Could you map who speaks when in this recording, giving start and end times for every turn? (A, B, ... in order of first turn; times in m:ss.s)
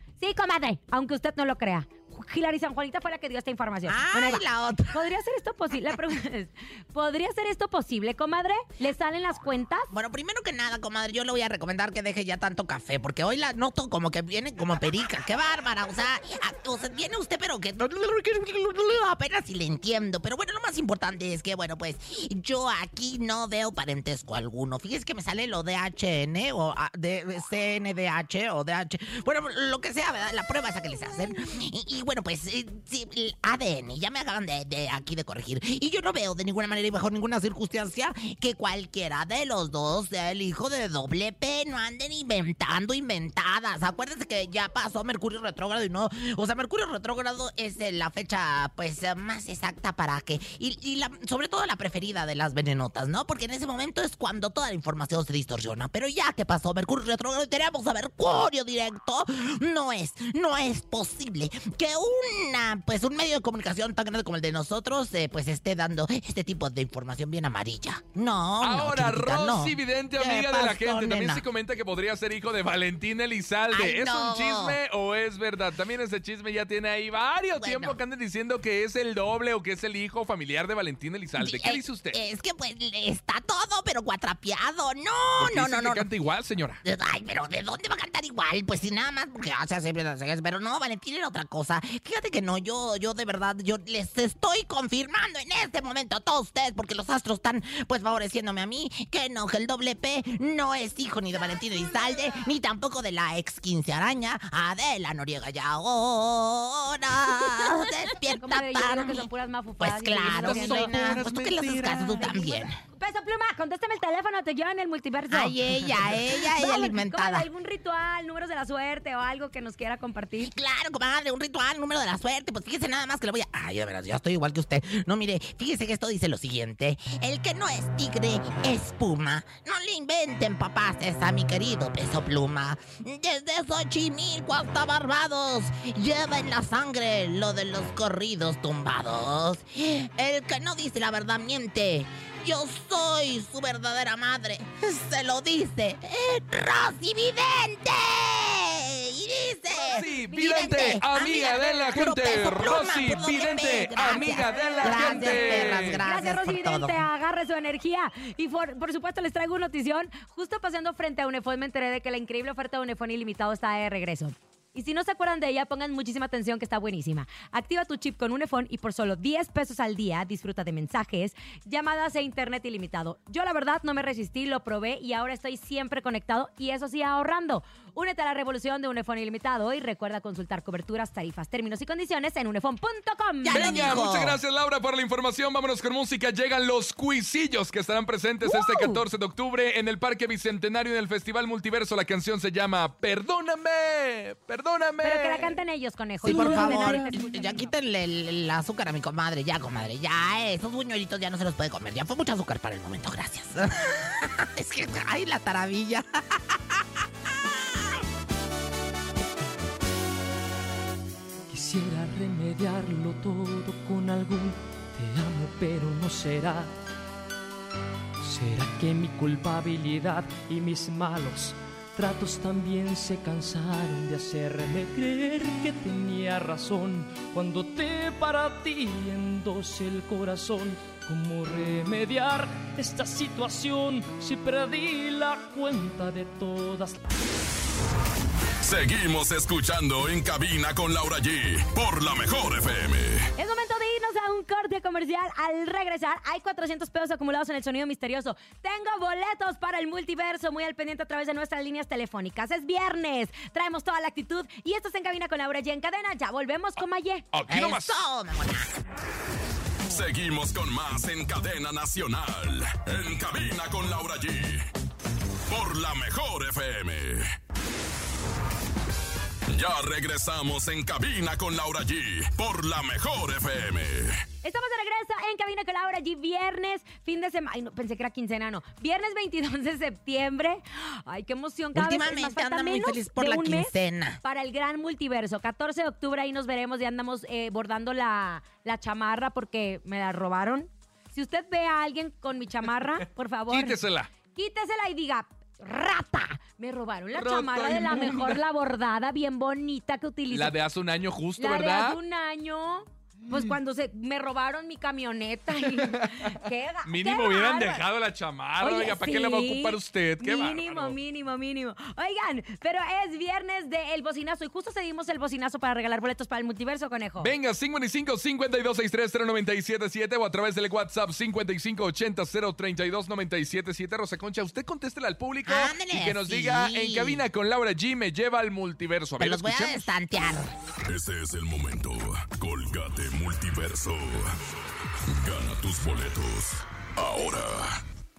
0:00.2-0:09.9 A
0:03.8-0:05.0 B
0:09.9-1:11.4 B
1:08.6-1:22.2 C
1:13.7-1:14.8 B
1:17.6-1:18.0 B
1:21.4-1:26.0 B
1:25.4-1:26.8 C
1:26.8-1:49.3 B
1:48.4-1:50.9 A
1:49.8-1:52.8 B
1:50.3-1:52.4 C
1:52.2-2:00.5 A
1:55.3-1:57.5 B
2:00.4-2:37.0 B
2:29.8-2:30.8 A
2:29.9-2:36.0 C
2:31.3-2:31.9 A
2:34.1-3:04.0 A
3:03.4-3:04.4 B
3:03.5-3:15.5 C
3:08.5-3:09.0 A
3:15.0-3:17.7 A
3:16.2-3:28.0 B
3:16.3-3:16.9 C
3:31.5-3:36.7 D
3:38.2-3:57.1 D
3:58.6-4:03.3 E
4:03.4-4:17.2 A
4:17.3-4:18.0 C
4:17.5-4:18.8 B
4:19.9-4:24.7 E
4:25.5-4:27.3 E
4:29.5-4:34.2 E
4:34.4-4:53.8 A
4:41.7-4:44.2 B
4:53.5-4:54.1 C
4:54.3-5:00.6 A
4:57.1-4:58.4 C
5:00.3-5:02.0 C
5:01.4-5:07.8 A
5:05.7-5:11.0 C
5:08.6-5:17.3 A
5:17.2-5:29.9 C
5:25.4-5:27.2 B
5:29.2-5:30.5 B
5:30.9-5:34.4 E
5:35.1-5:37.8 E